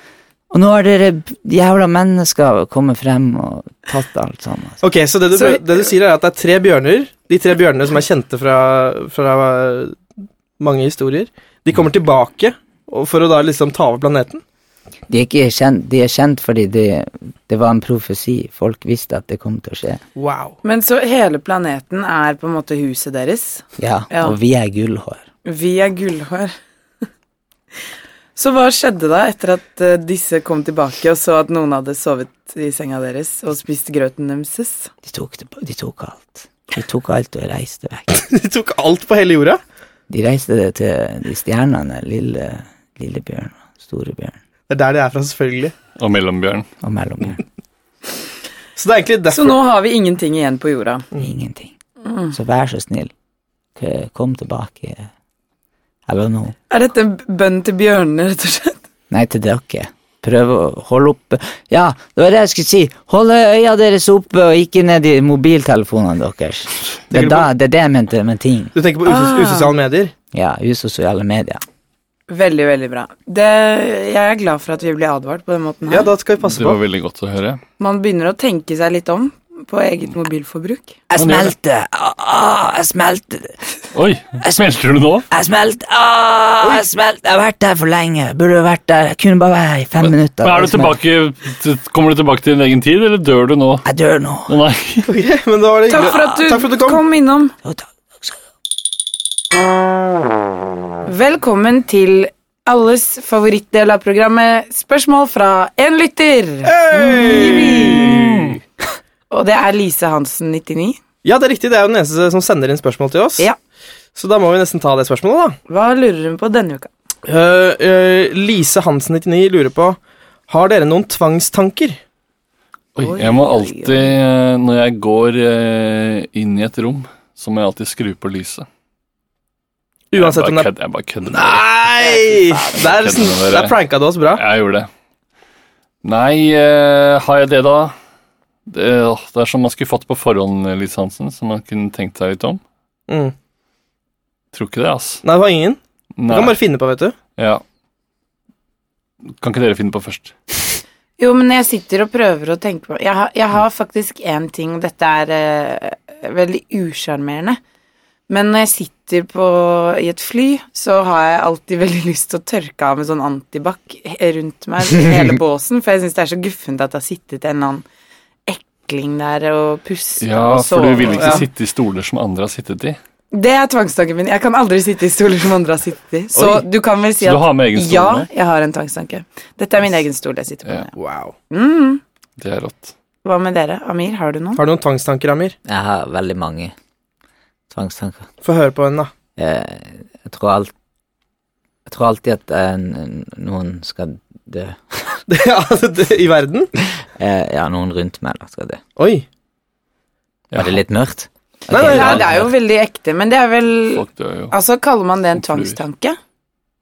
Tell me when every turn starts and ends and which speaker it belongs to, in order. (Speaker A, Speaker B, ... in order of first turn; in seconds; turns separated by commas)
Speaker A: 0.5-4.8, Speaker B: 4.8-10.0, Speaker C: 5.3-5.6, Speaker B: 10.6-14.4, Speaker A: 15.1-20.0, Speaker B: 20.1-20.6, Speaker C: 20.6-24.4, Speaker A: 23.8-25.2, Speaker C: 25.4-26.5, Speaker C: 28.4-34.9, Speaker A: 35.0-38.2, Speaker B: 38.1-39.6, Speaker A: 40.1-44.4, Speaker B: 44.7-45.7, Speaker D: 46.0-46.7, Speaker A: 46.8-47.4, Speaker B: 48.8-49.6, Speaker C: 49.3-51.0, Speaker A: 51.2-51.7, Speaker C: 52.1-52.3, Speaker A: 52.3-53.1, Speaker A: 53.8-55.1, Speaker A: 56.1-56.6, Speaker C: 56.7-58.8, Speaker A: 59.1-68.7, Speaker B: 67.1-67.5, Speaker B: 68.8-70.1, Speaker C: 69.1-69.7, Speaker A: 70.3-71.6, Speaker C: 72.3-76.1, Speaker B: 75.9-76.8, Speaker D: 76.4-77.6, Speaker C: 77.8-81.0, Speaker A: 81.1-83.6, Speaker D: 81.2-81.5, Speaker D: 83.9-85.3, Speaker A: 85.3-91.0, Speaker D: 90.0-93.9, Speaker A: 93.8-94.5, Speaker D: 94.5-95.1, Speaker B: 95.1-97.0, Speaker C: 95.9-97.5, Speaker A: 97.6-98.4, Speaker C: 101.0-108.2, Speaker B: 106.6-108.1, Speaker A: 107.1-108.5, Speaker D: 108.1-108.5, Speaker C: 109.3-111.0, Speaker B: 111.2-113.5, Speaker B: 114.1-115.6, Speaker C: 115.7-116.9, Speaker B: 117.3-120.0, Speaker B: 120.5-122.0, Speaker D: 123.0-128.7, Speaker C: 123.0-124.1, Speaker B: 130.1-130.7, Speaker D: 130.1-131.7, Speaker B: 131.3-134.4, Speaker C: 132.0-133.2, Speaker D: 132.7-134.9, Speaker D: 136.0-137.9, Speaker D: 138.7-142.6, Speaker B: 143.1-143.3, Speaker D: 144.5-145.2, Speaker B: 145.2-147.1, Speaker D: 146.2-146.6, Speaker D: 147.4-147.6, Speaker D: 149.4-150.3, Speaker C: 151.2-157.6, Speaker C: 158.3-167.8, Speaker C: 168.5-171.5, Speaker D: 170.2-173.0, Speaker B: 171.1-171.4, Speaker C: 173.3-180.9, Speaker B: 176.4-176.6, Speaker D: 177.2-178.3, Speaker B: 181.0-181.3, Speaker C: 181.5-182.0, Speaker D: 182.4-182.9, Speaker C: 183.2-184.6, Speaker B: 184.6-185.6, Speaker A: 185.7-186.7, Speaker A: 187.7-188.3, Speaker B: 188.4-189.1, Speaker A: 189.4-190.7, Speaker A: 191.9-195.2, Speaker B: 195.3-196.7, Speaker A: 197.0-198.8, Speaker B: 199.0-199.2, Speaker D: 200.5-200.8, Speaker A: 200.6-202.5, Speaker B: 201.7-202.2, Speaker C: 201.7-206.2, Speaker D: 203.9-204.5, Speaker D: 205.4-205.8